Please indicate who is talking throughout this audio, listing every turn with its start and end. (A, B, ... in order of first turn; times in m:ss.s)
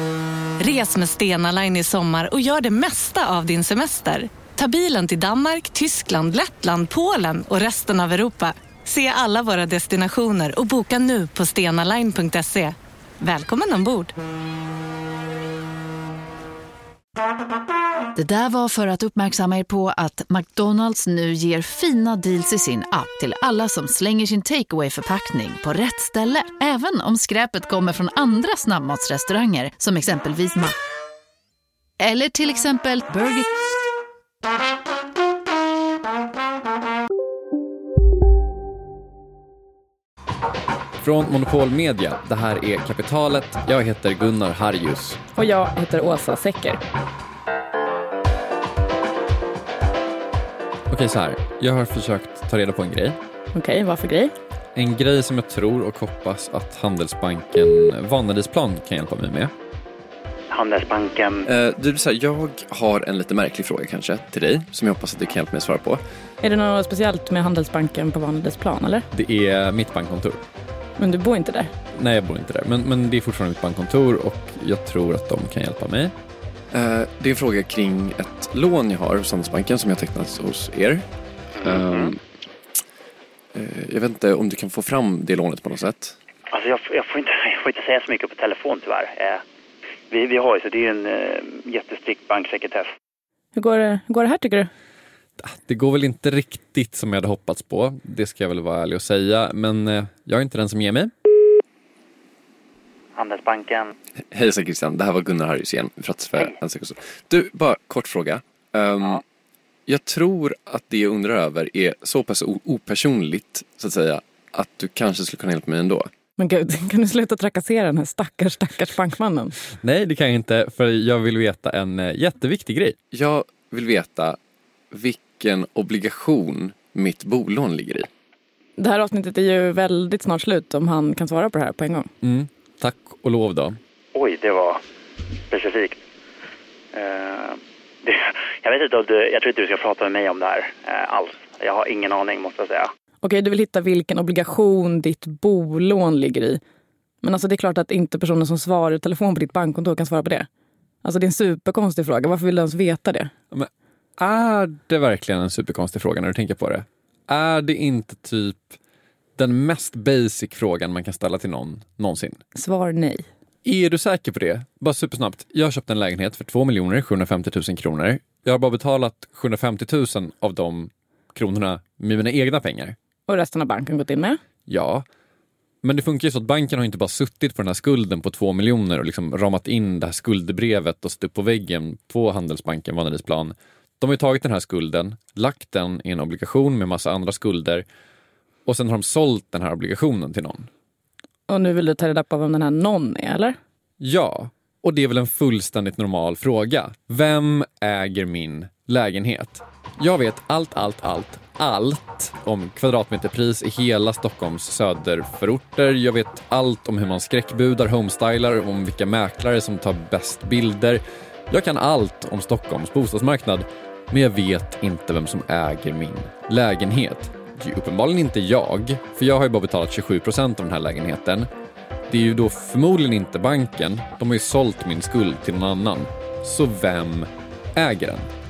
0:00.6-0:14.1 A
0:18.1-0:30.8 B
0:32.0-0:33.5 B
0:41.0-0:45.2 C
0:45.4-0:46.8 D
0:50.9-0:53.2 C
0:53.5-0:54.3 D
0:54.7-0:59.5 C
1:00.5-1:01.5 E
1:01.4-1:06.0 C
1:06.4-1:09.0 D
1:09.1-1:10.4 C
1:11.0-1:11.7 D
1:11.9-1:16.1 C
1:16.7-1:21.0 C
1:21.6-1:22.2 C
1:21.6-1:22.1 E
1:23.5-1:26.2 C
1:26.5-1:29.4 E
1:30.1-1:32.9 E
1:33.6-1:34.7 D
1:35.4-1:41.1 C
1:43.1-1:43.9 E
1:44.3-1:49.2 C
1:49.9-1:56.1 C
1:56.4-1:59.6 D
1:59.8-2:04.4 C
2:04.9-2:08.1 C
2:08.8-2:12.1 D
2:12.2-2:13.8 C
2:14.1-2:14.8 E
2:15.5-2:16.0 E
2:16.9-2:22.9 E
2:23.2-2:26.6 D
2:27.2-2:30.5 D
2:31.0-2:33.3 D
2:33.5-2:38.7 C
2:39.4-2:42.4 C
2:42.5-2:43.2 D
2:43.6-2:53.0 C
2:53.3-2:54.4 D
2:54.7-2:55.0 C
2:55.8-3:07.8 C
3:08.6-3:10.7 C
3:11.5-3:13.6 D
3:14.0-3:41.5 C
3:42.1-3:48.3 C